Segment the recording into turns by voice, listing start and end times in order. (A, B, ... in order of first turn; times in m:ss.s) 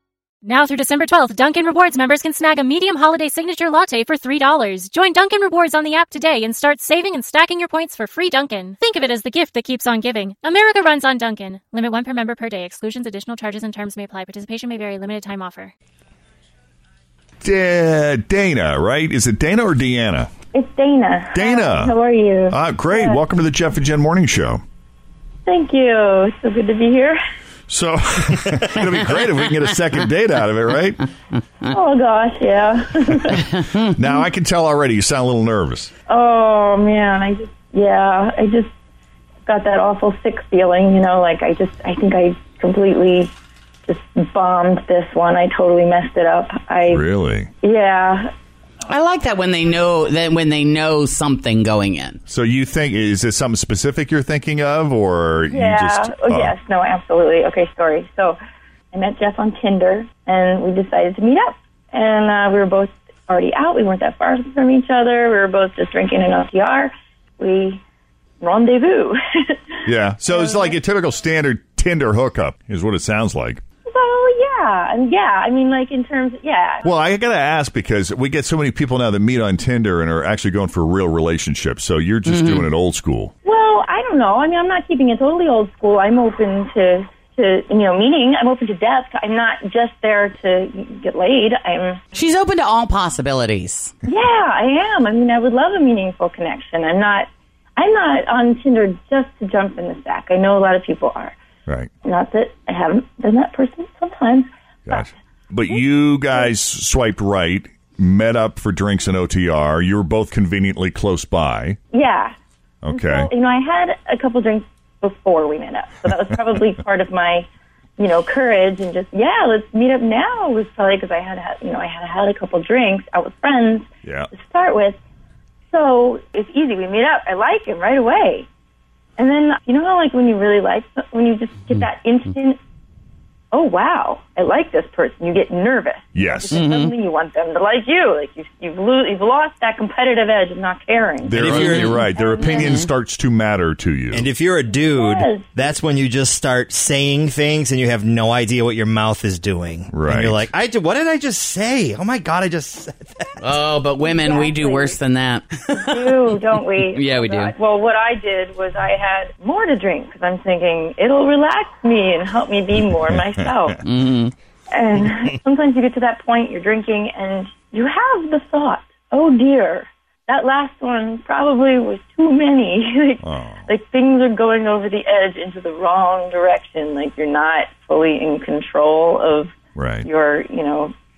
0:00.4-0:15.7 A
0:17.4-0:20.3 B
0:20.5-0:23.2 C
0:21.3-0:21.9 B
0:22.5-0:24.6 B
0:25.4-0:27.2 C
0:27.7-0:31.0 B
0:31.7-0:33.5 C
0:33.9-0:35.9 B
0:36.1-0:38.7 C
0:39.4-0:43.3 C
0:43.8-0:47.0 C
0:46.9-0:47.5 B
0:47.6-0:48.3 C
0:48.8-0:52.2 D
0:52.3-0:56.5 B
0:55.5-0:58.4 C
0:58.9-1:07.8 C
1:08.4-1:09.6 C
1:09.8-1:13.6 B
1:10.3-1:10.8 C
1:13.9-1:16.9 C
1:16.8-1:23.3 B
1:22.2-1:22.7 D
1:23.4-1:32.0 C
1:32.1-1:33.9 D
1:34.0-1:41.4 C
1:42.0-1:45.1 C
1:44.9-1:51.8 B
1:51.9-1:52.3 C
1:52.8-1:53.3 B
1:52.9-1:57.5 C
1:58.0-2:05.0 C
2:04.0-2:04.3 B
2:05.7-2:08.5 C
2:09.2-2:12.6 C
2:13.5-2:22.9 C
2:16.1-2:16.7 B
2:16.5-2:16.9 D
2:21.2-2:24.3 B
2:21.3-2:22.0 E
2:22.5-2:22.8 D
2:24.1-2:33.6 E
2:24.7-2:25.5 C
2:29.9-2:30.5 B
2:33.4-2:36.0 D
2:34.0-2:35.0 C
2:35.8-2:43.8 C
2:36.9-2:37.5 D
2:43.8-2:44.3 D
2:44.7-2:59.5 C
2:53.2-2:53.7 B
2:59.7-3:00.1 B
3:00.0-3:00.9 C